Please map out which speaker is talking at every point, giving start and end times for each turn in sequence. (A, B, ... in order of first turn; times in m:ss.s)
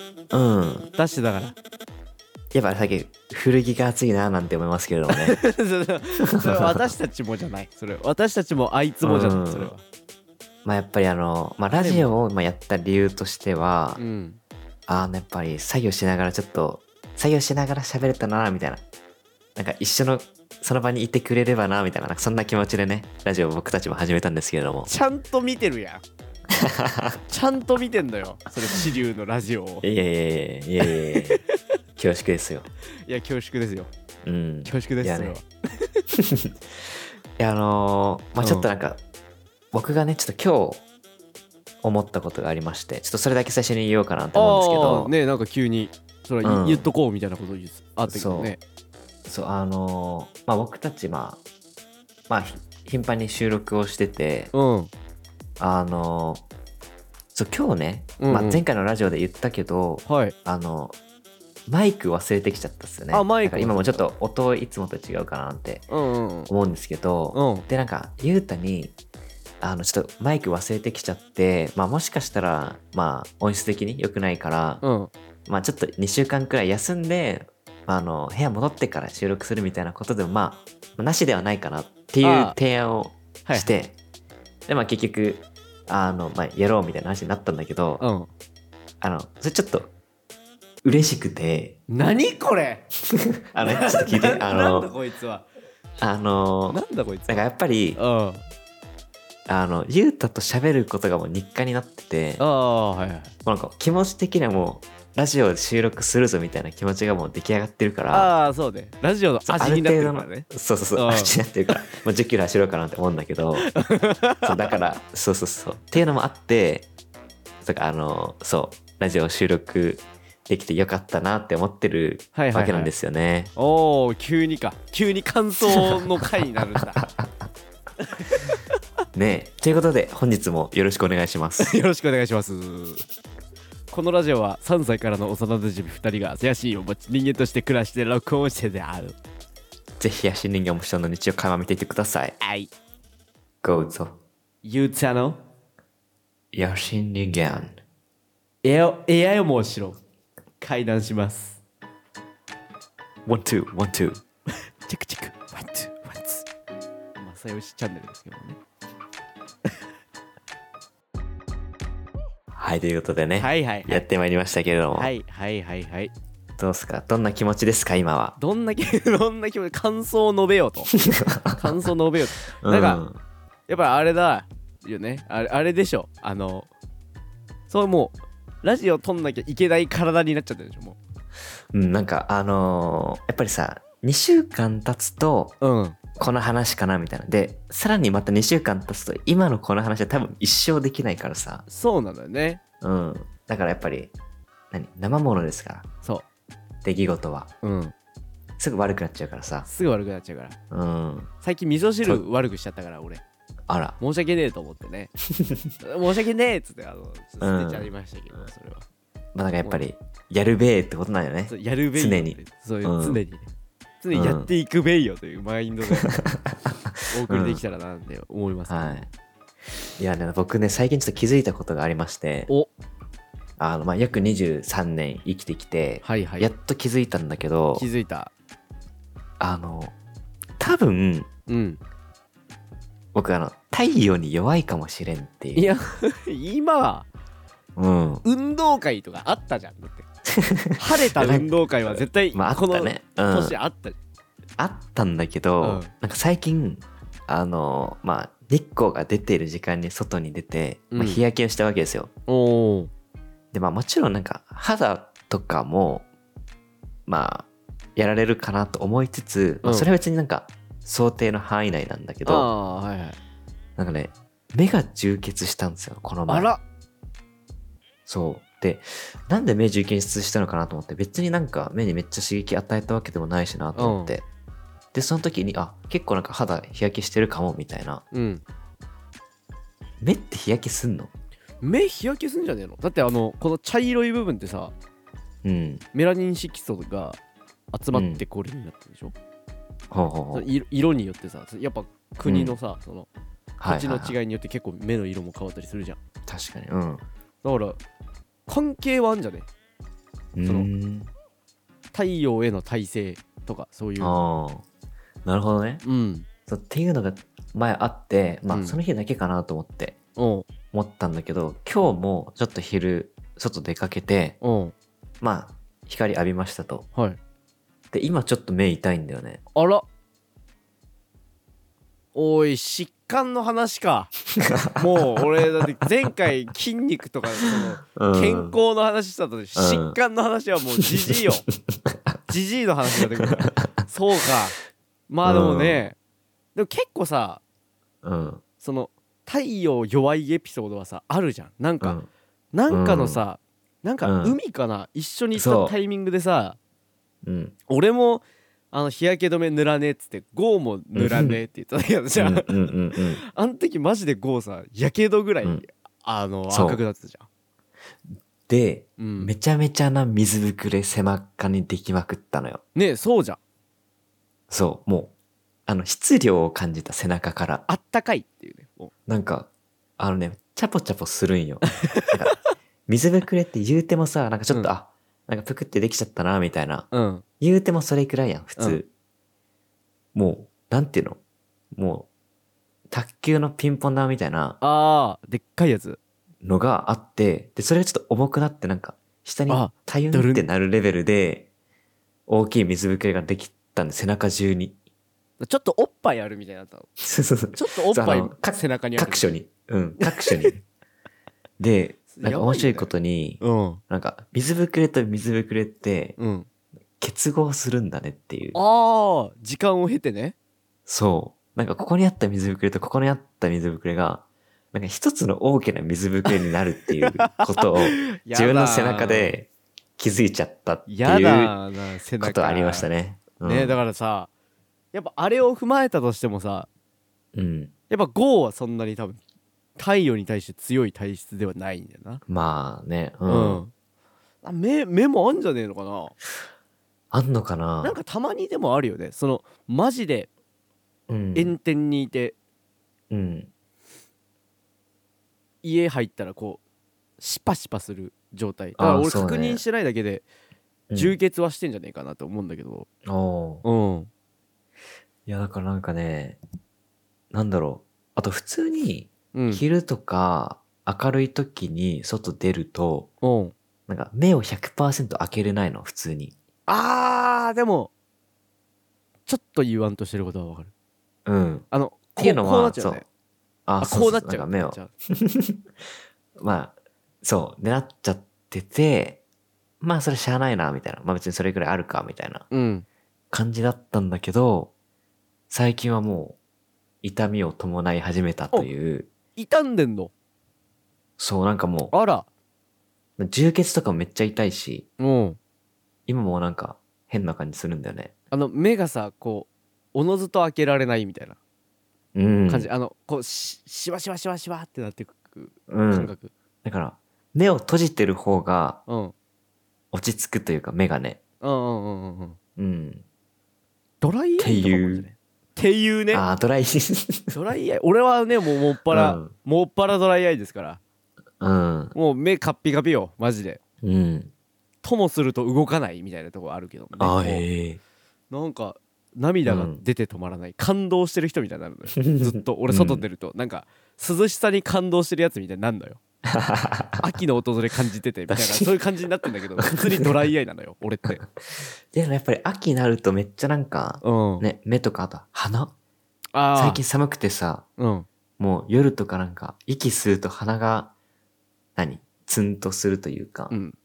0:00.3-0:00.9 A
0:01.0-0:01.5 B
0:02.5-0:05.4 A
0:05.1-0:09.8 B
0:06.4-0:06.8 A
0:09.0-0:09.7 A
0:10.6-0:14.0 A
0:11.7-0:12.1 B
0:14.0-0:14.4 B
0:14.9-0:18.8 A
0:19.6-0:24.9 A
0:24.9-0:26.0 B
0:26.5-0:27.2 A
0:27.3-0:29.9 B
0:29.8-0:31.4 A
0:30.8-0:31.4 B
0:32.0-0:32.7 A
0:33.1-0:33.9 B
0:34.2-0:35.4 A
0:34.6-0:36.0 B
0:36.1-0:36.5 A
0:37.4-0:39.0 A
0:38.4-0:38.7 B
0:39.7-0:40.8 A
0:41.8-0:45.1 A
0:44.3-0:48.6 B
0:46.4-0:46.9 A
0:48.1-0:48.6 A
0:49.2-0:51.4 A
0:52.3-0:54.5 A
0:54.5-0:54.9 B
0:55.6-0:56.4 A
0:57.3-1:01.0 A
0:58.2-0:58.6 B
1:00.0-1:00.3 B
1:01.7-1:05.8 A
1:03.1-1:04.1 B
1:05.9-1:06.5 B
1:06.5-1:09.0 A
1:07.3-1:07.7 B
1:09.6-1:14.8 A
1:14.8-1:15.1 B
1:15.4-1:23.9 A
1:22.2-1:22.6 B
1:23.4-1:23.7 B
1:24.7-1:28.0 A
1:28.0-1:28.3 B
1:29.0-1:29.9 A
1:30.8-1:31.8 A
1:31.9-1:32.8 B
1:33.1-1:34.9 A
1:33.6-1:35.5 B
1:36.0-1:38.0 A
1:36.7-1:38.4 B
1:39.5-1:42.4 A
1:42.4-1:43.3 B
1:43.4-1:48.3 A
1:48.1-1:51.8 B
1:49.4-1:53.7 A
1:53.6-1:54.7 B
1:54.4-1:56.8 A
1:57.6-2:03.5 A
2:02.3-2:02.9 B
2:03.6-2:07.0 B
2:05.7-2:06.0 A
2:06.8-2:07.3 A
2:08.0-2:08.8 B
2:09.1-2:11.8 A
2:11.6-2:13.0 B
2:13.9-2:19.2 B
2:20.0-2:22.4 A
2:22.4-2:22.7 B
2:23.6-2:24.2 A
2:24.6-2:25.4 B
2:26.5-2:27.8 A
2:28.6-2:30.0 B
2:30.6-2:31.6 B
2:33.2-2:34.2 A
2:34.8-2:36.5 B
2:37.2-2:38.6 B
2:42.5-2:45.1 A
2:43.4-2:44.0 B
2:44.9-2:46.1 B
2:46.6-2:48.4 A
2:48.4-2:50.9 B
2:51.0-2:51.7 A
2:51.6-2:53.0 B
2:52.6-2:53.2 A
2:53.7-2:56.7 B
2:57.7-3:01.0 B
3:01.7-3:05.6 A
3:05.6-3:06.0 B
3:06.2-3:11.6 A
3:11.7-3:12.6 B
3:12.8-3:14.1 A
3:14.7-3:15.8 A
3:16.8-3:17.5 A
3:17.6-3:17.9 B
3:18.6-3:19.7 A
3:19.6-3:20.6 B
3:20.7-3:21.3 A
3:21.4-3:23.2 B
3:23.7-3:24.0 A
3:24.0-3:25.1 B
3:25.4-3:25.7 A
3:25.8-3:28.8 B
3:27.4-3:27.9 A
3:29.3-3:33.2 A
3:31.5-3:33.5 B
3:34.0-3:36.1 B
3:34.1-3:34.5 A
3:35.9-3:37.6 A
3:37.1-3:39.0 B
3:38.7-3:39.1 A
3:40.0-3:42.5 A
3:43.6-3:47.9 A
3:46.0-3:46.5 B
3:47.8-3:48.3 B
3:49.4-3:49.9 A
3:50.6-3:51.3 A
3:51.5-3:51.8 B
3:53.1-3:55.7 A
3:55.5-3:57.1 B
3:57.8-3:58.2 A
3:58.2-4:00.0 B
4:00.3-4:03.6 A
4:00.8-4:04.0 B
4:04.6-4:12.1 A
4:05.6-4:05.9 B
4:10.9-4:11.2 B
4:12.3-4:12.9 B
4:13.5-4:16.1 A
4:17.1-4:22.5 A
4:19.6-4:19.9 B
4:22.2-4:23.2 B
4:23.8-4:26.5 A
4:26.3-4:26.6 B
4:28.1-4:34.3 A
4:33.8-4:34.1 B
4:34.9-4:38.0 A
4:38.1-4:38.4 B
4:40.0-4:41.1 A
4:41.6-4:44.7 B
4:45.4-4:45.8 A
4:45.9-4:47.2 B
4:47.7-4:49.2 B
4:47.9-4:48.2 A
4:49.9-4:50.5 A
4:50.3-4:53.1 B
4:52.2-4:52.6 A
4:53.6-4:54.2 A
4:53.7-4:56.0 B
4:56.3-4:57.0 A
4:57.4-4:57.8 B
4:58.5-4:59.5 B
5:00.4-5:01.1 A
5:01.9-5:04.2 B
5:04.0-5:04.6 A
5:05.2-5:05.8 A
5:05.8-5:06.3 B
5:06.5-5:10.0 A
5:08.5-5:08.8 B
5:10.2-5:10.5 B
5:10.7-5:14.4 A
5:14.4-5:14.7 B
5:15.2-5:16.9 A
5:17.9-5:19.4 A
5:19.6-5:19.8 B
5:22.2-5:24.1 B
5:24.3-5:25.4 A
5:24.8-5:31.5 B
5:27.4-5:28.6 A
5:29.6-5:30.0 A
5:30.8-5:31.2 A
5:31.9-5:32.2 A
5:32.3-5:34.6 B
5:33.2-5:33.9 A
5:35.1-5:36.0 B
5:35.2-5:35.8 A
5:36.6-5:37.4 B
5:38.0-5:38.4 A
5:38.6-5:42.0 B
5:41.8-5:42.1 A
5:42.5-5:46.6 B
5:42.7-5:43.2 A
5:44.0-5:44.4 A
5:45.3-5:45.8 A
5:47.2-5:47.6 A
5:47.7-5:57.3 B
5:50.9-5:51.4 A
5:52.2-5:53.2 A
5:56.5-5:56.8 A
5:58.5-6:02.6 A
5:59.0-5:59.3 B
6:02.8-6:03.4 B
6:04.5-6:05.1 A
6:05.7-6:07.6 A
6:07.7-6:08.9 B
6:09.1-6:12.4 A
6:11.7-6:12.5 B
6:12.9-6:16.9 A
6:16.9-6:17.2 B
6:17.4-6:18.9 A
6:20.1-6:21.2 A
6:21.7-6:22.1 A
6:22.9-6:24.6 A
6:24.6-6:26.0 B
6:26.4-6:31.5 A
6:29.5-6:30.5 B
6:32.3-6:34.8 A
6:35.4-6:36.9 B
6:37.0-6:40.6 A
6:37.6-6:39.3 B
6:40.0-6:40.5 B
6:41.6-6:46.2 A
6:42.1-6:43.8 B
6:46.2-6:46.5 B
6:47.0-6:48.6 A
6:48.5-6:50.4 B
6:50.9-7:01.6 A
6:57.1-6:59.4 B
7:00.9-7:02.9 B
7:02.2-7:03.8 A
7:03.4-7:04.3 B
7:04.9-7:06.7 B
7:07.3-7:07.7 A
7:07.9-7:09.2 B
7:09.8-7:12.2 B
7:12.3-7:13.6 A
7:13.3-7:13.7 B
7:14.4-7:16.2 B
7:17.1-7:18.0 A
7:17.8-7:20.3 B
7:21.1-7:21.6 A
7:21.4-7:22.4 B
7:23.1-7:23.5 A
7:25.6-7:26.6 B
7:27.2-7:30.3 B
7:28.8-7:29.6 A
7:30.9-7:31.2 A
7:30.9-7:32.9 B
7:33.1-7:33.6 A
7:33.6-7:34.1 B
7:35.3-7:36.4 A
7:37.3-7:43.1 A
7:39.3-7:39.6 B
7:43.2-7:43.5 B
7:43.9-7:46.3 A
7:46.7-7:47.9 B
7:49.3-7:50.7 B
7:51.3-7:51.7 A
7:51.7-7:53.0 B
7:52.2-7:53.0 A
7:53.7-7:55.6 A
7:53.8-7:54.9 B
7:56.4-7:59.2 A
7:59.8-8:02.5 A
8:02.5-8:02.9 B
8:03.3-8:04.7 A
8:05.5-8:06.4 A
8:07.0-8:09.1 A
8:09.4-8:10.1 B
8:11.2-8:11.9 A
8:11.9-8:12.3 B
8:13.2-8:14.9 A
8:15.0-8:15.4 B
8:16.1-8:18.1 A
8:18.3-8:21.4 B
8:22.2-8:22.7 A
8:22.5-8:26.3 B
8:25.7-8:26.1 A
8:26.6-8:28.8 A
8:28.9-8:29.1 B
8:29.9-8:31.2 A
8:31.4-8:32.4 B
8:32.6-8:33.0 A
8:34.0-8:36.2 B
8:34.4-8:35.0 A
8:36.1-8:37.3 A
8:37.3-8:40.8 B
8:38.9-8:39.3 A
8:41.4-8:41.9 A
8:41.9-8:43.6 B
8:43.8-8:44.3 A
8:44.8-8:47.4 B
8:47.0-8:47.8 A
8:48.3-8:56.0 B
8:49.4-8:49.8 A
8:52.0-8:53.0 A
8:56.3-8:57.1 A
8:57.0-9:01.2 B
8:58.3-8:58.7 A
9:01.1-9:05.7 A
9:04.0-9:04.4 B
9:06.3-9:06.8 B
9:06.5-9:07.6 A
9:07.8-9:08.1 B
9:08.4-9:10.9 A
9:11.8-9:13.5 A
9:13.5-9:13.8 B